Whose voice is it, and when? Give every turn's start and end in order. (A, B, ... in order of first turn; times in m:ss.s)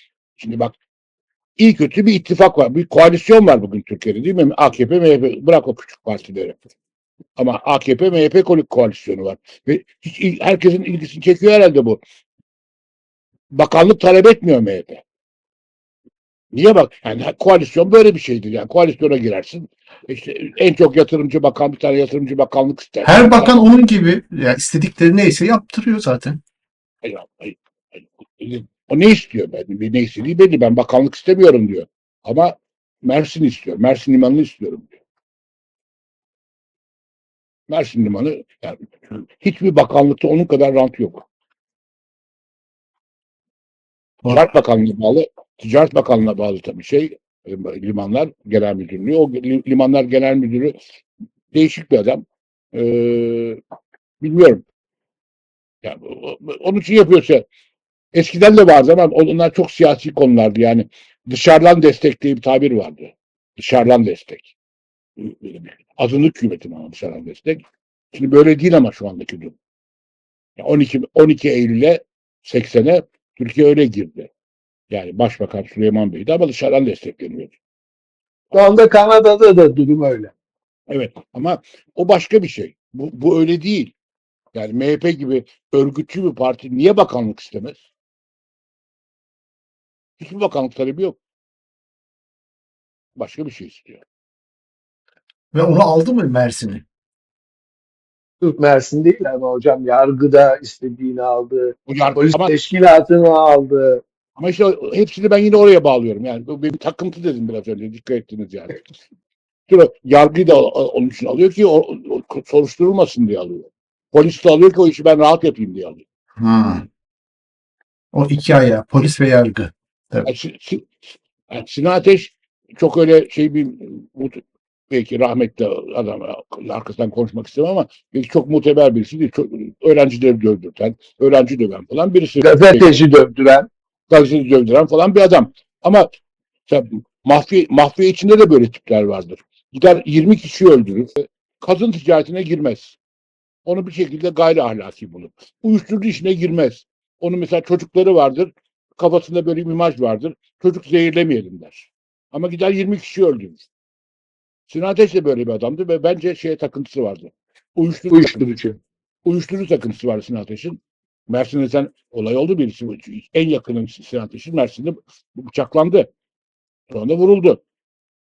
0:00.4-0:00.7 A
0:01.6-0:06.6 A
0:07.4-0:12.0 A
0:13.5-0:15.0 A
0:16.5-0:23.6 A
0:23.0-0:26.4 B
0:27.0-0:34.9 A
0:37.7-0:41.2 A
0:44.2-0:50.7 A
0:51.5-0:52.2 A
0:52.7-0:53.6 A
0:54.2-0:54.6 A
0:55.8-0:57.4 A
0:58.1-1:04.5 A
1:05.2-1:09.6 A
1:10.6-1:14.3 A
1:14.9-1:17.5 A
1:18.5-1:20.3 C
1:20.9-1:23.9 A
1:24.5-1:27.8 A
1:30.2-1:31.2 A
1:33.2-1:34.0 A
1:35.5-1:36.8 B
1:38.4-1:44.0 C
1:41.9-1:42.5 A
1:44.4-1:48.8 A
1:49.7-1:56.0 A
1:56.4-1:56.8 B
1:58.1-2:00.2 B
2:00.2-2:01.0 A
2:01.5-2:12.9 A
2:12.4-2:13.7 C
2:14.1-2:16.1 A
2:16.7-2:23.0 A
2:23.6-2:33.6 A
2:34.7-2:38.5 A
2:38.1-2:38.8 C
2:39.2-2:46.1 A
2:46.9-2:47.6 A